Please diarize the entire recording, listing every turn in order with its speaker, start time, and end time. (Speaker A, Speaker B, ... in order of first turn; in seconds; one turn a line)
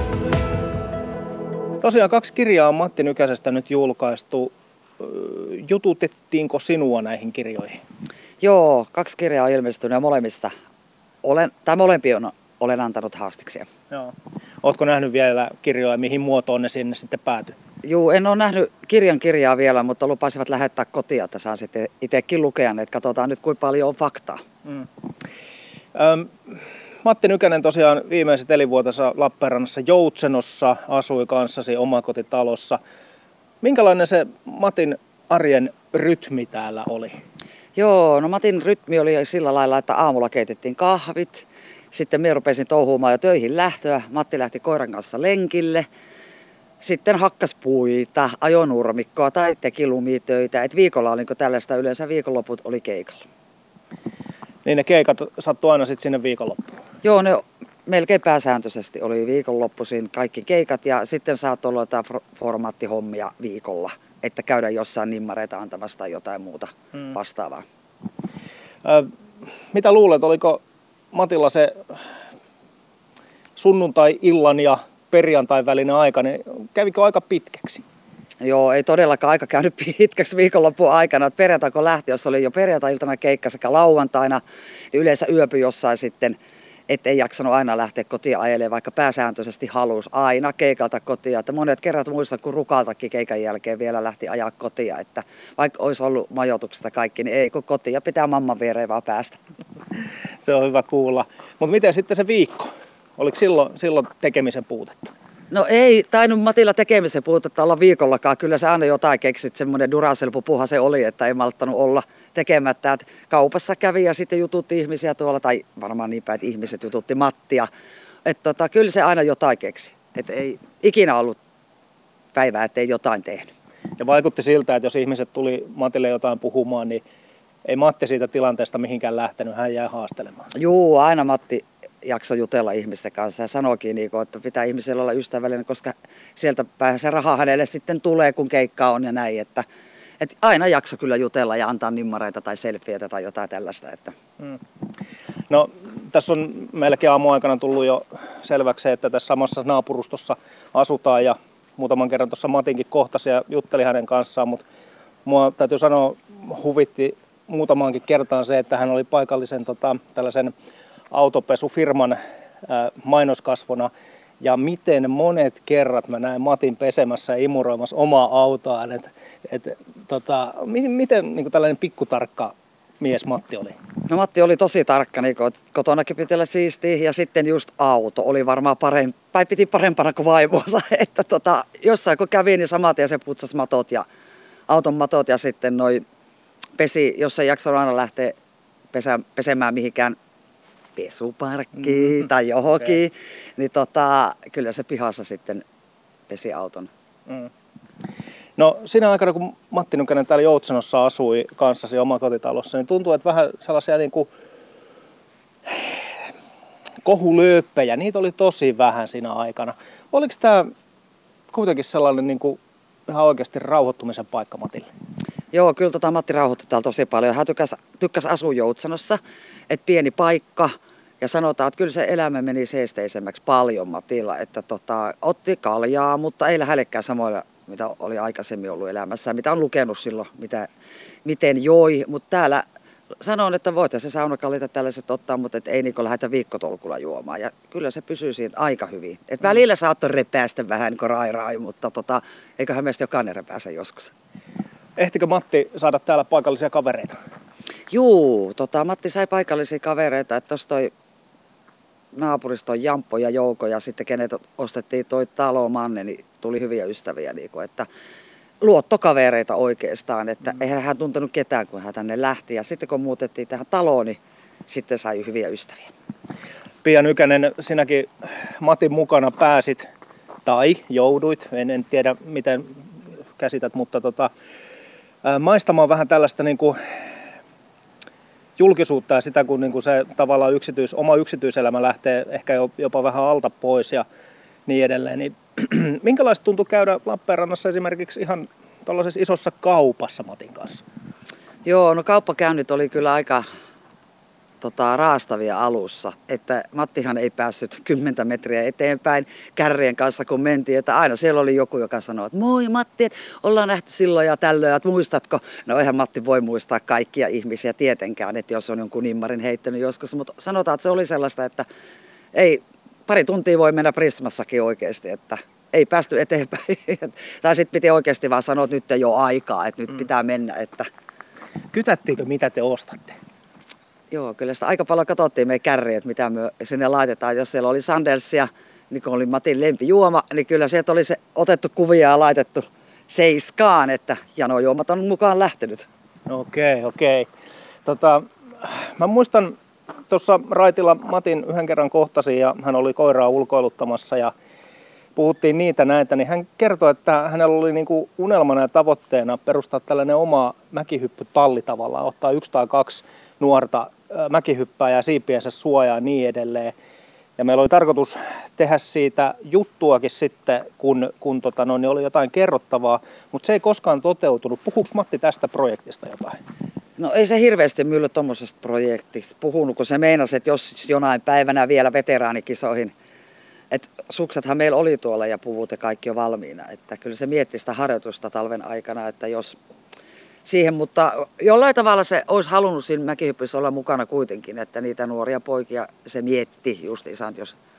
Speaker A: 1.8-7.8
Speaker B: 8.4-10.5
Speaker B: 11.2-13.7
Speaker A: 13.9-17.6
Speaker B: 17.8-24.4
Speaker A: 25.9-32.8
Speaker A: 33.6-37.1
Speaker B: 37.8-45.9
Speaker B: 46.8-53.2
Speaker A: 54.6-56.7
Speaker B: 57.0-67.6
Speaker A: 68.8-69.1
Speaker A: 69.7-72.0
Speaker A: 73.5-77.8
Speaker B: 78.4-84.4
Speaker B: 84.9-86.4
Speaker B: 86.9-99.4
Speaker A: 100.4-105.1
Speaker B: 105.5-117.7
Speaker B: 118.2-121.4
Speaker B: 122.3-123.5
Speaker A: 124.0-127.0
Speaker A: 127.7-130.5
Speaker B: 130.5-139.6
Speaker B: 140.2-144.1
Speaker A: 145.5-154.6
Speaker A: 155.2-160.5
Speaker A: 161.1-163.9
Speaker A: 164.4-173.8
Speaker B: 174.1-184.1
Speaker B: 184.7-186.0
Speaker B: 186.8-188.3
Speaker B: 188.9-190.2
Speaker B: 191.0-195.6
Speaker B: 196.3-196.9
Speaker A: 198.6-204.3
Speaker A: 205.7-206.0
Speaker A: 207.0-210.7
Speaker A: 211.5-214.9
Speaker B: 215.5-219.2
Speaker B: 219.7-230.7
Speaker B: 231.2-232.6
Speaker B: 233.2-244.1
Speaker A: 245.0-247.2
Speaker B: 247.9-250.9
Speaker B: 252.1-257.9
Speaker B: 258.6-265.9
Speaker A: 266.8-269.9
Speaker A: 270.4-272.8
Speaker A: 273.4-274.3
Speaker A: 275.2-276.8
Speaker A: 278.6-284.0
Speaker A: 284.6-290.8
Speaker B: 291.6-293.4
Speaker B: 294.6-311.7
Speaker B: 312.3-320.9
Speaker A: 321.7-323.2
Speaker B: 324.1-335.9
Speaker A: 336.3-337.3
Speaker A: 337.8-339.6
Speaker A: 340.1-344.3
Speaker A: 345.1-356.7
Speaker A: 357.4-366.4
Speaker B: 367.0-372.9
Speaker B: 373.7-379.6
Speaker B: 380.4-387.6